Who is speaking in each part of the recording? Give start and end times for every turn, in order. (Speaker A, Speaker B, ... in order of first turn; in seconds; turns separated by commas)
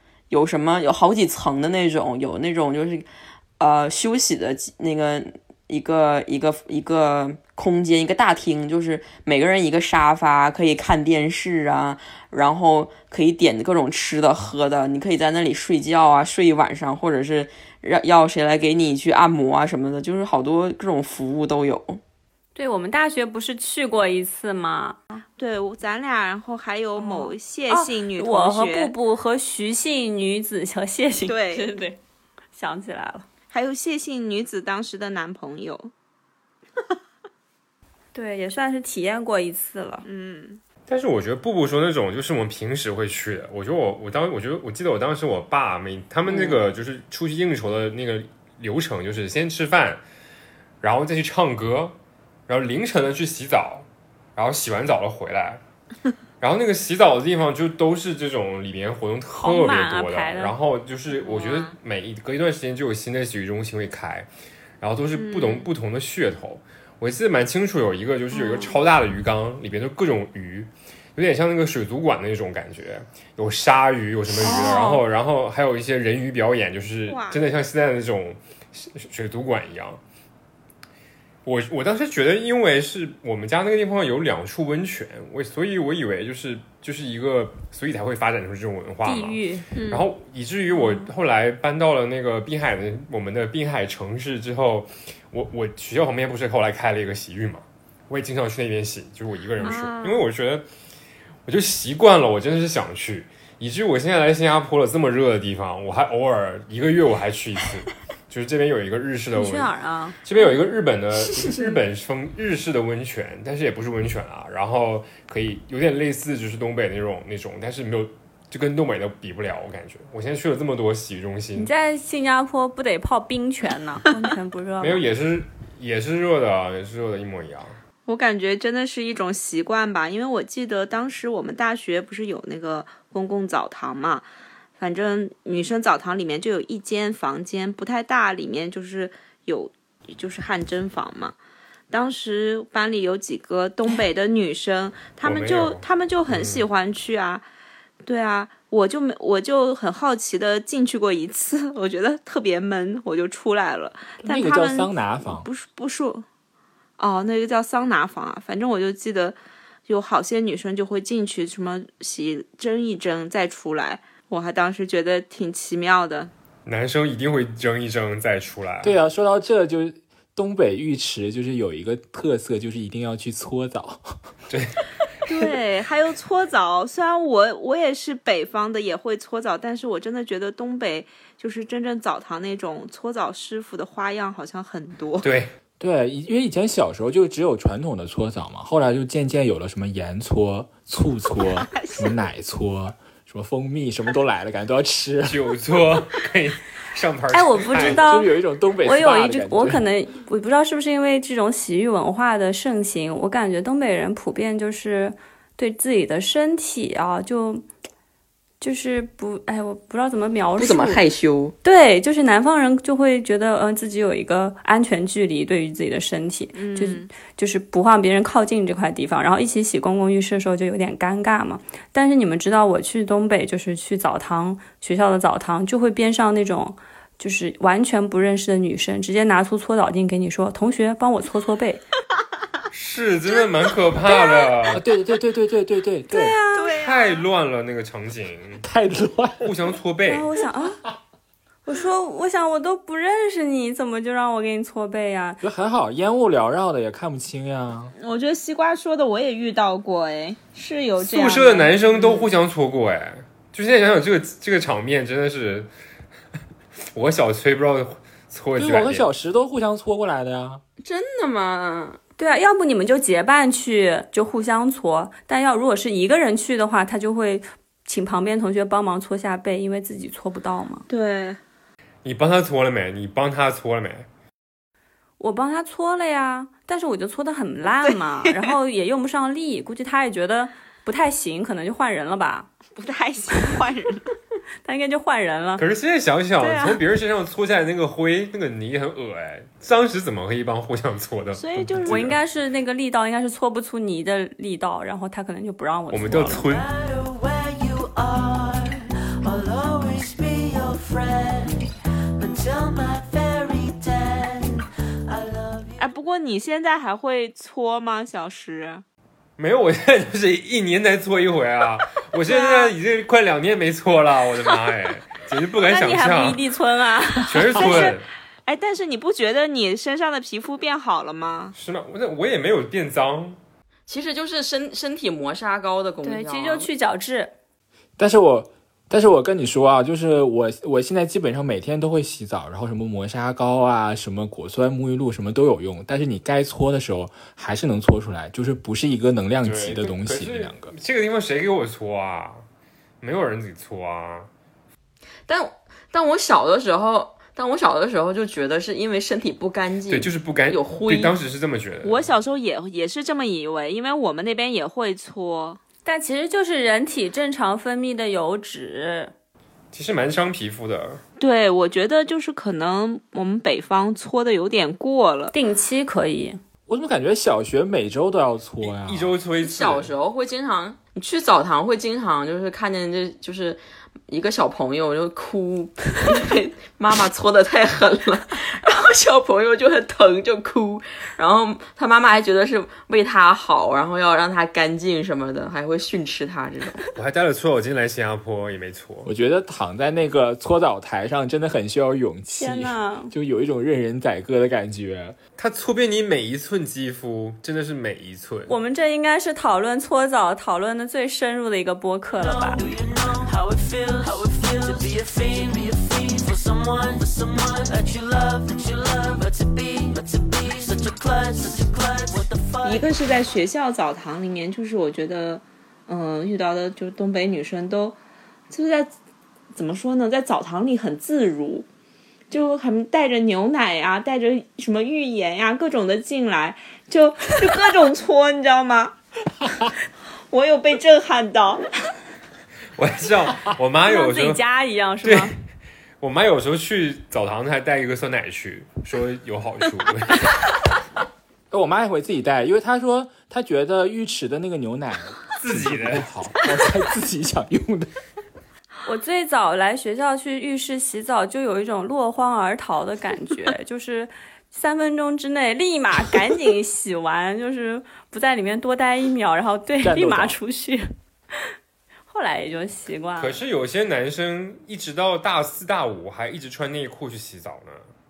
Speaker A: 0.3-3.1, Speaker A: 3.6-22.0, Speaker B: 22.6-25.0, Speaker C: 25.4-28.9, Speaker B: 27.0-32.0, Speaker C: 31.2-31.7, Speaker B: 32.5-33.3, Speaker C: 33.5-35.9, Speaker B: 38.1-40.0, Speaker C: 40.0-40.6, Speaker D: 40.9-50.0, Speaker C: 46.3-46.6, Speaker D: 50.8-55.6, Speaker D: 56.4-64.3, Speaker B: 59.3-60.5, Speaker C: 61.1-61.8, Speaker D: 64.8-80.0, Speaker C: 65.2-65.7, Speaker C: 68.3-68.8, Speaker A: 74.3-75.0, Speaker C: 74.4-74.8, Speaker C: 77.1-77.5, Speaker D: 81.5-100.7, Speaker B: 89.0-89.7, Speaker C: 89.8-90.1, Speaker C: 90.7-91.1, Speaker C: 99.6-100.2, Speaker D: 101.5-109.7, Speaker B: 109.3-110.2, Speaker D: 110.2-121.7, Speaker B: 121.6-125.1, Speaker D: 124.8-127.8, Speaker C: 128.1-134.3, Speaker C: 134.8-141.3, Speaker C: 141.9-147.4, Speaker D: 145.2-146.7, Speaker C: 148.0-156.2, Speaker E: 154.2-155.5, Speaker C: 157.0-166.3, Speaker D: 166.7-168.9, Speaker E: 168.8-174.2, Speaker D: 174.5-174.8, Speaker C: 175.3-185.3, Speaker D: 185.2-185.5, Speaker E: 185.8-195.4, Speaker C: 191.6-192.1, Speaker D: 195.2-198.1, Speaker B: 197.3-198.3, Speaker E: 197.8-199.8, Speaker B: 198.8-207.7, Speaker B: 208.6-211.0, Speaker A: 210.6-211.6, Speaker B: 211.6-231.8, Speaker C: 216.6-217.1, Speaker D: 232.7-234.8, Speaker E: 234.7-236.4, Speaker B: 236.1-236.8, Speaker C: 236.6-237.3, Speaker D: 236.8-238.6, Speaker E: 238.6-239.5, Speaker D: 239.4-240.3, Speaker B: 240.1-240.8, Speaker B: 241.7-245.4, Speaker E: 245.4-247.9, Speaker C: 248.0-252.3, Speaker D: 251.0-255.7, Speaker D: 256.9-259.1, Speaker E: 258.6-260.6, Speaker A: 260.8-262.0, Speaker B: 262.2-270.9, Speaker C: 270.9-271.4, Speaker D: 272.0-274.1, Speaker B: 275.2-282.5, Speaker C: 277.8-278.6, Speaker C: 282.8-284.1, Speaker B: 284.6-285.6, Speaker D: 285.6-292.2, Speaker B: 286.4-286.8, Speaker C: 291.3-292.1, Speaker B: 291.9-296.4, Speaker D: 295.9-296.7, Speaker F: 296.4-301.7, Speaker F: 302.2-305.9, Speaker C: 305.8-308.8, Speaker D: 309.4-316.4, Speaker C: 312.2-312.8, Speaker B: 315.6-318.0, Speaker D: 317.2-318.1, Speaker C: 317.6-321.6, Speaker D: 321.6-323.4, Speaker A: 323.9-326.7, Speaker B: 326.0-327.3, Speaker E: 328.0-340.7, Speaker D: 339.4-342.4, Speaker D: 343.0-344.3, Speaker A: 345.3-351.2, Speaker D: 349.9-352.1, Speaker C: 351.8-355.6, Speaker B: 355.9-359.1, Speaker D: 359.7-361.0, Speaker C: 361.2-365.3, Speaker B: 365.3-366.4, Speaker E: 366.7-369.2, Speaker D: 368.6-369.9, Speaker A: 369.4-386.8, Speaker D: 386.9-389.1, Speaker E: 389.1-395.2, Speaker B: 392.3-393.1, Speaker D: 395.4-398.5, Speaker B: 398.5-402.6, Speaker F: 402.2-412.9, Speaker C: 412.6-418.0, Speaker C: 418.5-418.9, Speaker C: 419.6-421.7, Speaker C: 422.3-428.9, Speaker C: 430.3-431.6, Speaker D: 432.8-434.4, Speaker B: 433.9-435.3, Speaker D: 435.0-435.3, Speaker D: 436.0-440.3, Speaker E: 441.5-447.9, Speaker D: 445.4-446.1, Speaker B: 448.9-460.8, Speaker E: 459.8-460.4, Speaker B: 462.1-463.4, Speaker D: 463.2-467.9